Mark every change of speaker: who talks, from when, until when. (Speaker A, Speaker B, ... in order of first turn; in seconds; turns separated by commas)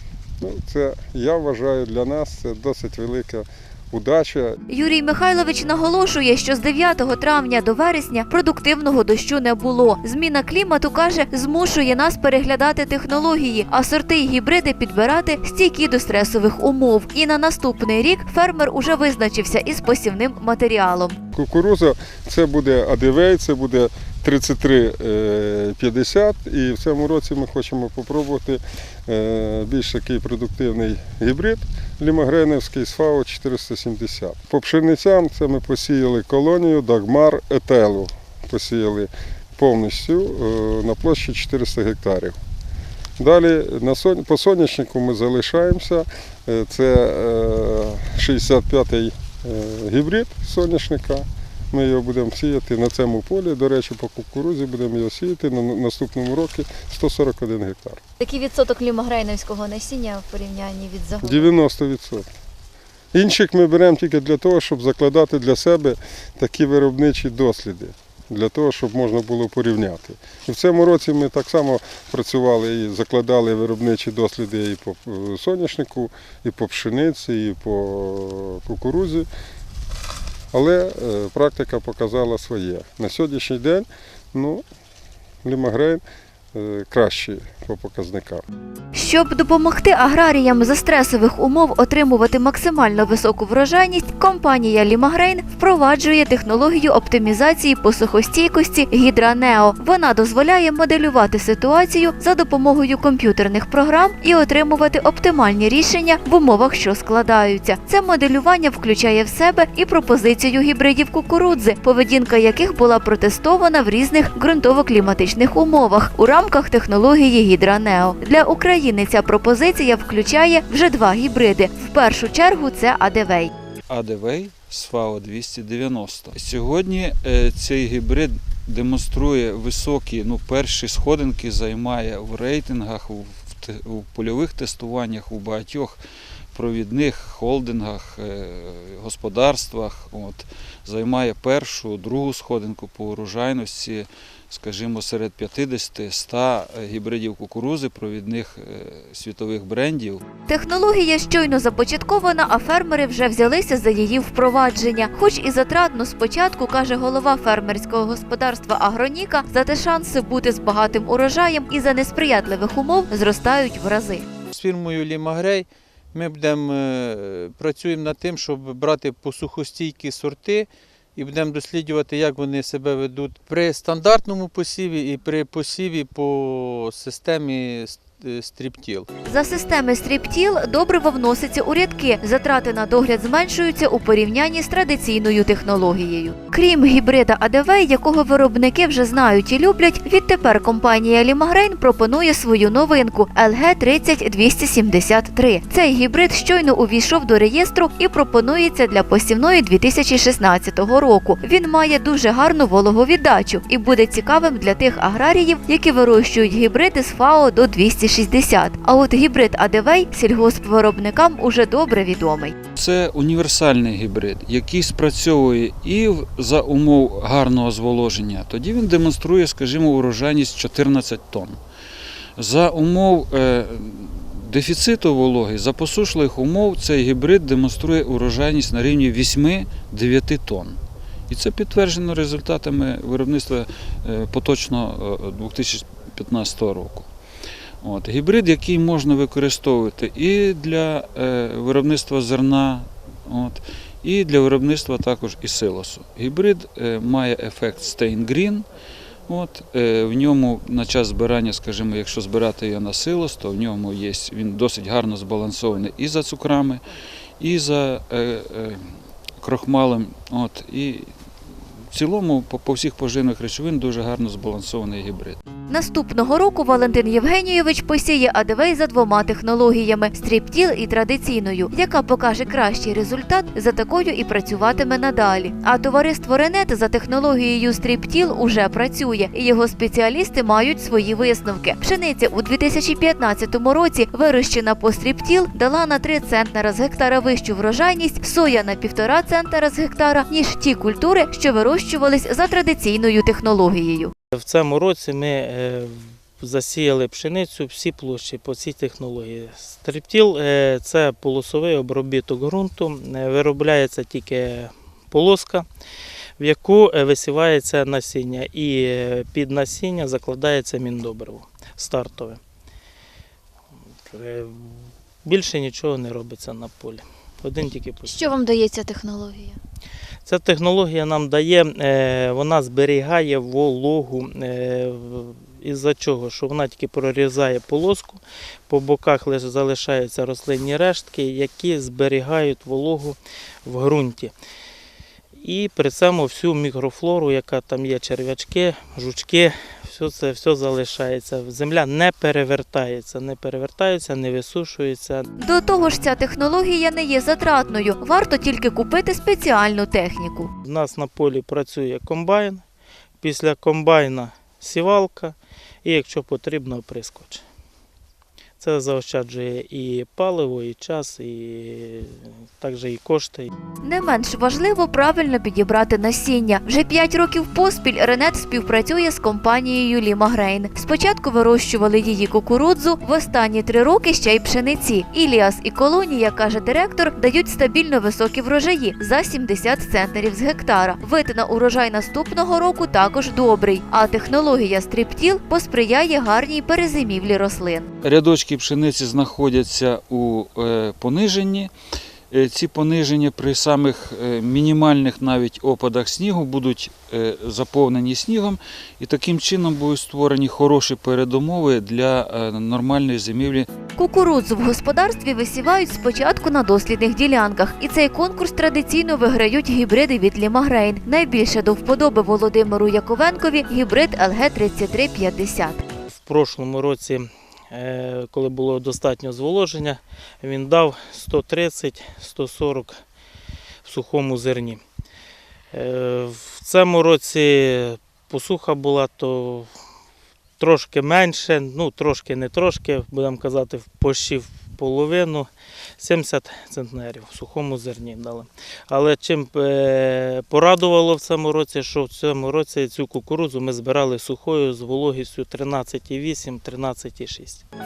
Speaker A: 0.4-4.6, Speaker B: 4.7-21.2, Speaker A: 21.3-42.4, Speaker A: 43.2-58.0, Speaker B: 58.2-61.5, Speaker A: 61.2-62.3, Speaker A: 63.1-79.3, Speaker A: 80.5-84.6, Speaker A: 85.4-86.0, Speaker A: 86.5-88.4, Speaker B: 88.9-123.5, Speaker C: 123.9-136.0, Speaker C: 136.5-150.2, Speaker B: 150.5-164.2, Speaker D: 164.5-179.1, Speaker B: 179.3-212.5, Speaker C: 212.8-221.6, Speaker C: 222.4-230.8, Speaker C: 231.3-237.1, Speaker C: 237.8-248.7, Speaker C: 249.3-256.8, Speaker C: 257.4-258.8, Speaker C: 259.4-261.1, Speaker C: 261.9-265.4, Speaker B: 265.7-294.1, Speaker E: 294.3-305.7, Speaker E: 306.4-312.4, Speaker E: 314.1-314.7, Speaker E: 315.2-318.4, Speaker B: 318.1-319.6, Speaker E: 320.2-334.3, Speaker E: 335.4-345.3, Speaker B: 345.4-350.5, Speaker E: 350.6-352.6, Speaker E: 353.2-357.4, Speaker E: 358.6-363.5, Speaker B: 363.8-387.9, Speaker C: 388.0-391.7, Speaker C: 392.3-403.7, Speaker B: 404.0-415.8, Speaker E: 416.1-423.0, Speaker E: 423.8-424.8, Speaker E: 425.7-429.7, Speaker E: 430.6-447.6